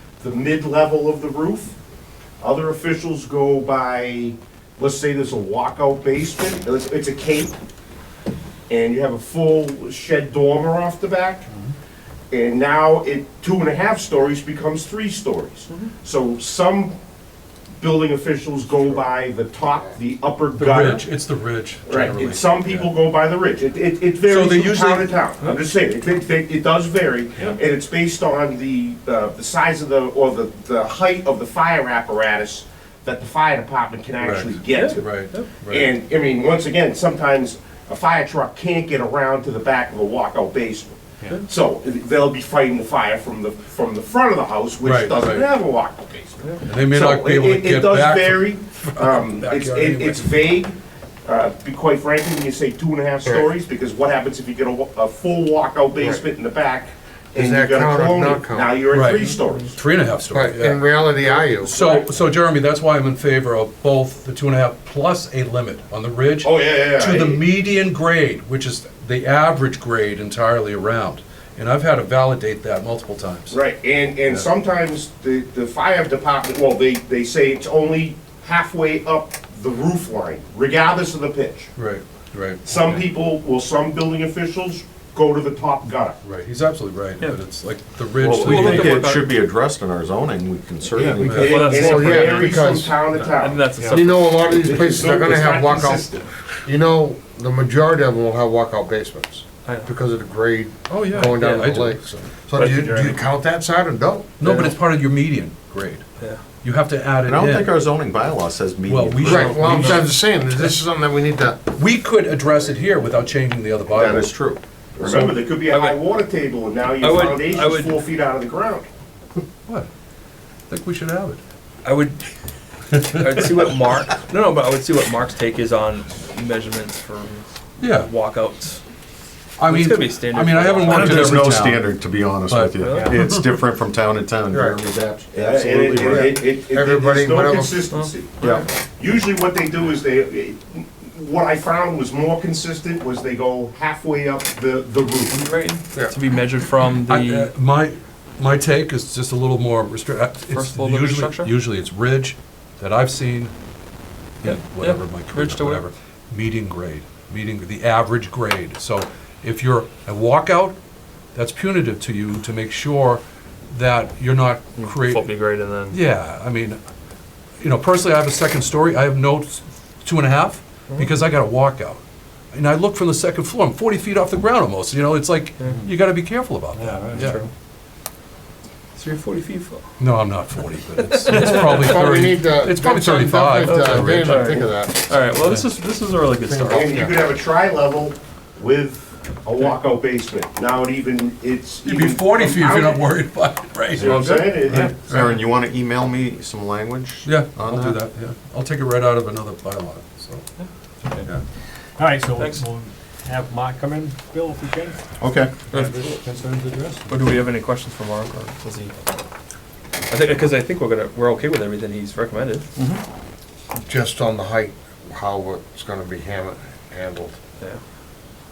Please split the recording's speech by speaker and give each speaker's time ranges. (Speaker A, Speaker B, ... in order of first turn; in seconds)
Speaker A: 0.2-1.8, 2.4-7.6, 8.7-11.5, 12.3-16.9, 17.8-21.1, 21.9-59.8, 61.7-62.0, 66.4-67.4, 73.5-81.7, 82.7-86.2, 91.4-93.6, 94.5-95.5, 115.0-118.9, 135.3-145.4, 186.7-193.1, 193.9-195.2
Speaker B: 20.6-22.9, 24.3-25.1, 34.2-35.9, 44.8-45.5, 46.7-50.4, 58.9-61.1, 61.6-73.6, 81.8-82.6, 86.2-89.0, 91.2-91.6, 95.1-96.2, 100.9-103.2, 104.4-106.0, 106.6-107.8, 108.9-110.8, 111.7-114.3, 115.0-115.3, 120.7-121.4, 127.8-128.1, 129.6-131.9, 132.5-133.4, 147.1-153.5, 154.4-160.8, 161.3-165.4, 165.9-166.8, 167.6-172.0, 172.5-177.4, 180.0-184.4, 191.8-195.3, 197.2-200.5
Speaker C: 34.7-35.5, 88.3-89.3, 91.2-92.6, 93.2-95.9, 99.7-99.9, 101.1-101.7, 109.3-110.1, 115.7-116.0, 117.0-118.0, 121.8-122.3, 123.1-128.8, 129.6-131.4, 132.8-133.1, 145.3-147.5, 150.5-151.5, 154.4-155.9, 164.8-166.0, 170.9-171.1, 175.6-175.8, 177.1-177.5, 179.0-179.9, 181.0-182.1, 183.6-187.0, 194.0-194.9, 202.3-202.6, 205.7-206.2, 207.1-209.0, 210.1-212.7
Speaker D: 56.0-56.2, 57.3-58.9, 60.3-61.7, 91.3-93.0, 93.9-104.8, 109.2-111.6, 134.5-134.8, 136.0-137.8, 181.4-185.3, 186.5-187.2, 213.9-217.4
Speaker E: 88.2-91.6, 107.3-110.0, 113.9-114.6, 130.9-136.3, 194.9-198.0, 205.2-205.5, 212.8-213.0
Speaker F: 91.0-91.3, 93.2-94.2, 102.6-103.2, 132.9-133.2, 176.7-177.4, 201.0-201.4, 202.0-205.1, 205.7-207.2